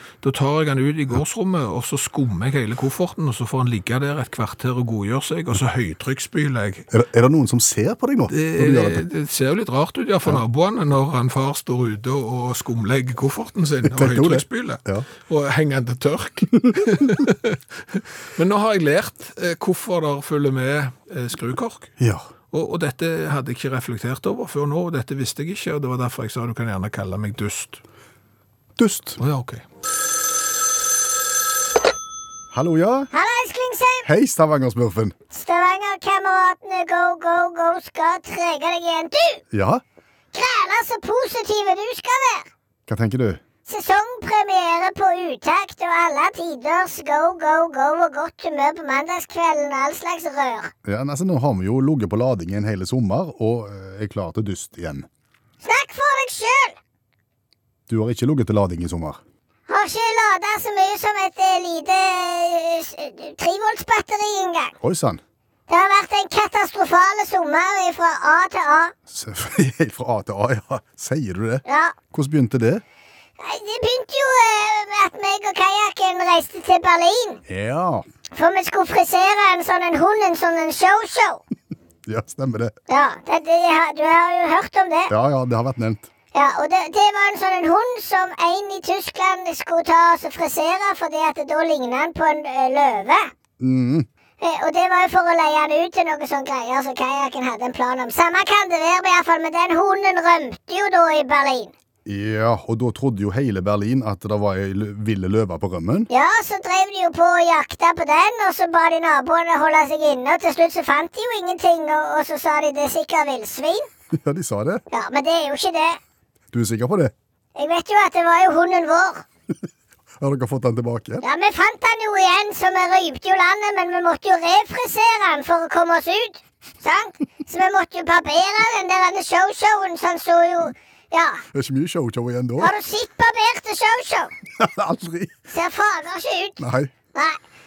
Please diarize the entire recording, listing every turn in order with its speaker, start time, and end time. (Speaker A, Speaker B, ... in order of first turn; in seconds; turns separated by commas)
Speaker A: 0.2-6.9, Speaker B: 6.9-9.0, Speaker A: 8.3-21.9, Speaker B: 13.9-15.1, Speaker B: 22.0-22.3, Speaker A: 22.5-27.8, Speaker B: 28.8-29.2, Speaker A: 29.2-29.6, Speaker B: 32.5-33.1, Speaker C: 33.1-34.1, Speaker B: 34.0-35.1, Speaker C: 35.3-39.4, Speaker B: 39.5-39.8, Speaker C: 40.3-42.5, Speaker B: 42.9-43.4, Speaker C: 43.7-50.7, Speaker B: 50.9-55.1, Speaker C: 55.6-56.8, Speaker B: 57.9-59.2, Speaker C: 59.7-64.7, Speaker B: 64.8-65.2, Speaker C: 65.7-68.9, Speaker B: 69.1-72.8, Speaker C: 71.7-72.0, Speaker C: 73.4-77.4, Speaker B: 77.5-78.0, Speaker C: 78.3-81.4, Speaker B: 82.1-82.7, Speaker C: 82.9-85.1, Speaker B: 85.1-86.0, Speaker C: 86.3-93.3, Speaker B: 93.6-94.1, Speaker C: 94.4-101.7, Speaker B: 102.0-106.1, Speaker C: 106.1-113.9, Speaker B: 114.1-114.8, Speaker C: 114.9-116.0, Speaker B: 116.5-117.1, Speaker C: 117.6-119.2, Speaker B: 120.2-121.2, Speaker C: 121.2-131.4, Speaker B: 131.5-132.7, Speaker C: 132.6-134.3, Speaker B: 134.6-135.4, Speaker C: 135.5-136.6, Speaker B: 136.6-136.9, Speaker C: 137.1-137.4